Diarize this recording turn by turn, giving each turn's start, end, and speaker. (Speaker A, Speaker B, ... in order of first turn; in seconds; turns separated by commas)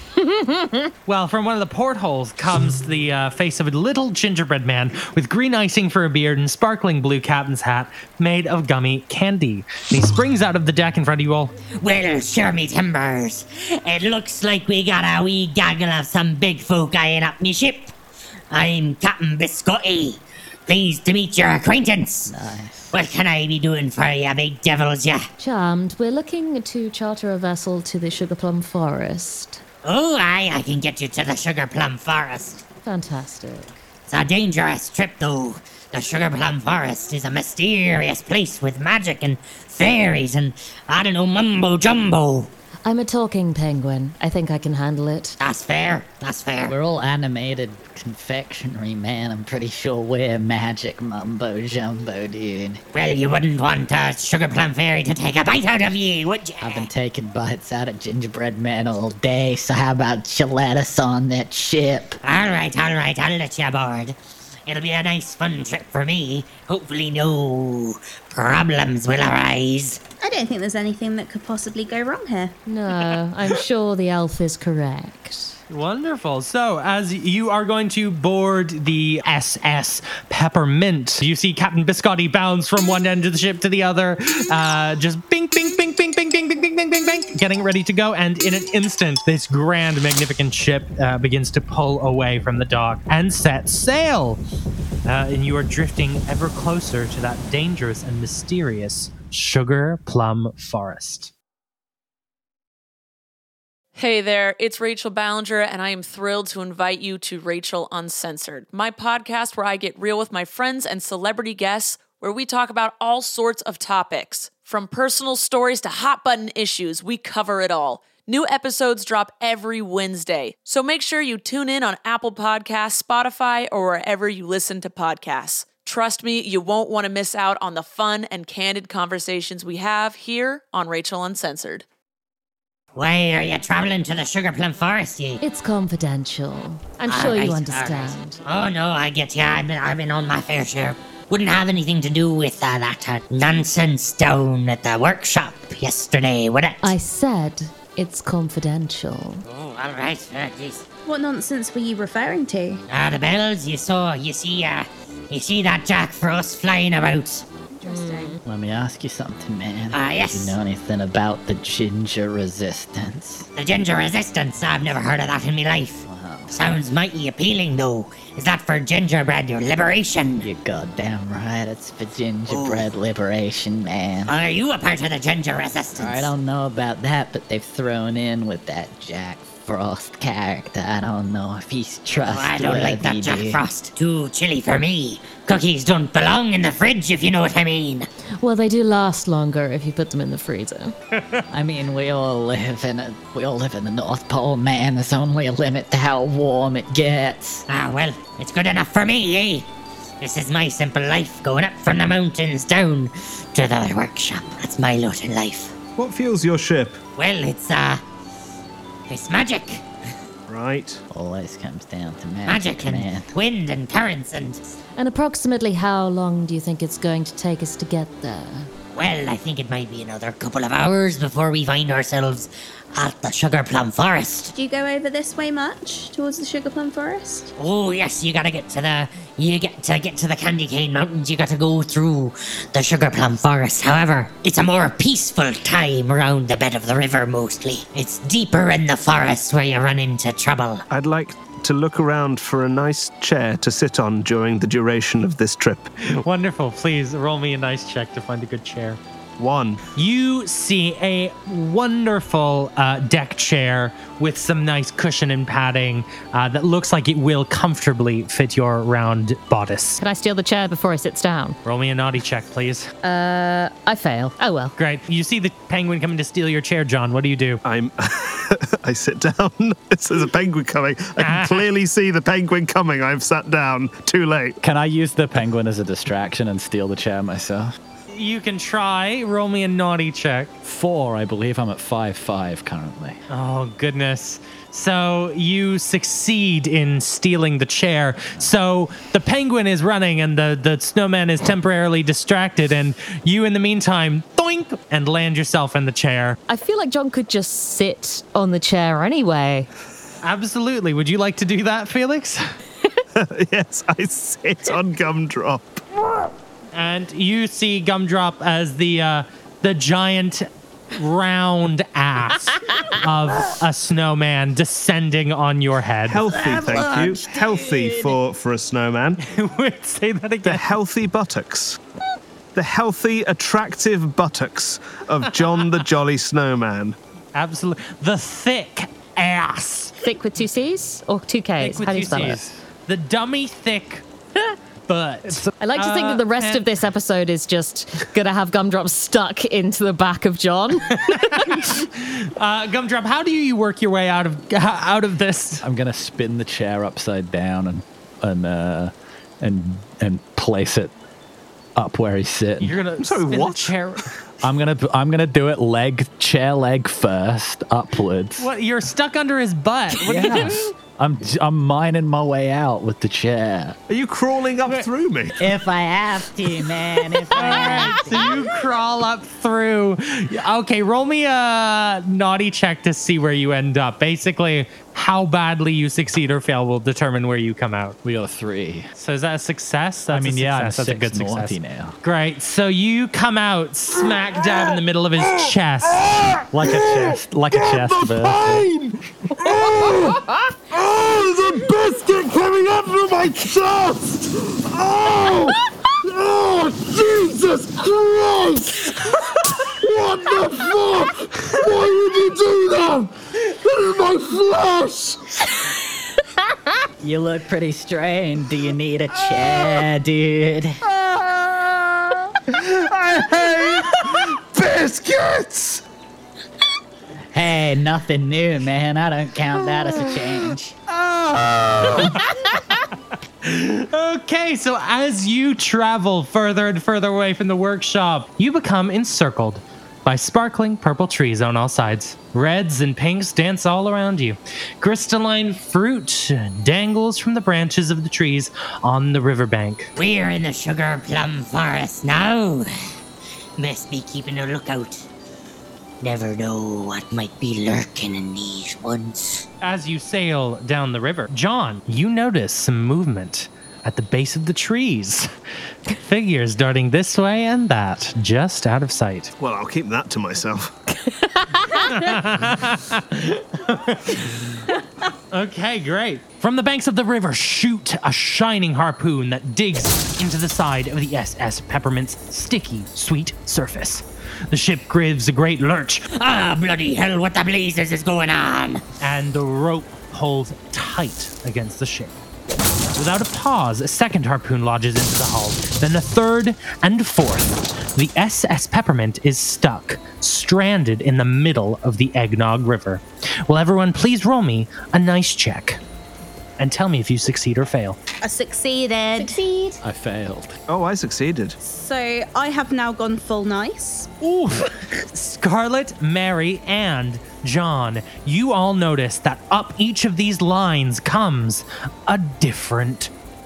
Speaker A: 0.2-0.8, Speaker B: 1.1-11.5, Speaker C: 11.8-17.9, Speaker C: 18.5-22.3, Speaker D: 22.3-22.9, Speaker C: 22.9-25.3, Speaker A: 25.4-29.6, Speaker C: 29.8-32.6, Speaker A: 32.8-33.7, Speaker C: 34.1-42.5, Speaker A: 42.9-45.4, Speaker C: 45.4-46.8, Speaker D: 46.7-52.8, Speaker C: 52.9-56.9, Speaker D: 56.6-62.2, Speaker C: 62.2-70.0, Speaker E: 70.2-72.6, Speaker A: 72.7-75.6, Speaker B: 75.7-94.4, Speaker B: 95.1-101.3, Speaker F: 104.0-131.9, Speaker C: 132.9-135.4, Speaker A: 135.4-138.4, Speaker C: 137.1-147.0, Speaker A: 146.8-149.4, Speaker C: 149.5-150.8, Speaker E: 151.1-152.8, Speaker C: 152.9-157.5, Speaker E: 157.7-158.4, Speaker A: 157.8-158.4, Speaker D: 158.4-163.5, Speaker C: 159.9-160.6, Speaker C: 163.6-170.5, Speaker D: 166.1-166.5, Speaker D: 170.4-174.3, Speaker C: 172.5-172.9, Speaker C: 174.3-176.3, Speaker D: 176.0-183.6, Speaker C: 182.2-188.1, Speaker A: 188.4-190.9, Speaker B: 191.2-191.4, Speaker D: 191.5-197.7, Speaker C: 197.7-199.7, Speaker C: 200.2-205.7, Speaker G: 206.0-207.0, Speaker C: 207.2-208.0, Speaker C: 209.1-209.8, Speaker G: 210.5-211.0, Speaker D: 211.1-213.3, Speaker C: 212.5-214.8, Speaker A: 215.0-218.7, Speaker C: 218.9-224.5, Speaker E: 224.5-227.5, Speaker C: 227.6-240.8, Speaker G: 240.9-245.9, Speaker B: 246.1-249.0, Speaker G: 249.4-249.8, Speaker B: 249.9-260.0, Speaker A: 260.0-261.6, Speaker B: 261.6-262.9, Speaker A: 263.0-264.7, Speaker B: 264.8-267.6, Speaker G: 267.6-274.6, Speaker B: 271.2-271.6, Speaker H: 274.6-277.7, Speaker B: 278.1-280.5, Speaker H: 280.6-283.2, Speaker B: 283.3-296.4, Speaker A: 296.5-299.7, Speaker B: 300.2-302.5, Speaker G: 303.2-305.8, Speaker B: 306.7-316.3, Speaker G: 316.1-319.2, Speaker D: 316.3-318.1, Speaker B: 319.2-320.7, Speaker G: 320.4-321.8, Speaker G: 322.6-327.0, Speaker B: 325.3-325.7, Speaker B: 327.3-330.0, Speaker A: 330.0-332.4, Speaker B: 331.6-334.1, Speaker H: 332.1-332.5, Speaker B: 334.9-336.7, Speaker A: 335.6-341.6, Speaker B: 340.9-345.6, Speaker H: 345.6-350.9, Speaker H: 351.8-352.8, Speaker B: 352.6-354.1, Speaker G: 353.0-353.8, Speaker H: 354.4-358.5, Speaker B: 358.4-360.7, Speaker H: 360.0-363.8, Speaker G: 363.9-365.4, Speaker D: 365.4-368.4, Speaker B: 367.3-378.0, Speaker H: 378.0-378.9, Speaker B: 378.9-387.9, Speaker H: 380.1-382.0, Speaker H: 386.5-388.7, Speaker G: 388.3-388.6, Speaker G: 389.6-390.1, Speaker G: 390.7-395.5, Speaker G: 396.2-398.2, Speaker G: 402.4-403.1, Speaker G: 404.4-405.2, Speaker D: 407.0-410.8, Speaker G: 411.0-411.8, Speaker G: 412.5-415.8, Speaker D: 417.3-420.8, Speaker G: 420.9-422.1, Speaker B: 421.9-422.8, Speaker B: 423.4-439.9, Speaker C: 440.0-442.7, Speaker C: 443.6-445.1, Speaker C: 446.0-449.5, Speaker B: 449.6-455.3, Speaker B: 455.9-459.3, Speaker G: 459.4-460.7, Speaker A: 461.1-462.1, Speaker B: 461.7-464.7, Speaker B: 465.3-476.1, Speaker C: 476.1-478.8, Speaker B: 479.0-482.2, Speaker B: 483.0-495.8, Speaker B: 496.6-498.0, Speaker E: 498.2-499.8, Speaker H: 499.8-500.6, Speaker G: 500.7-501.6, Speaker E: 501.6-504.1, Speaker B: 504.2-513.1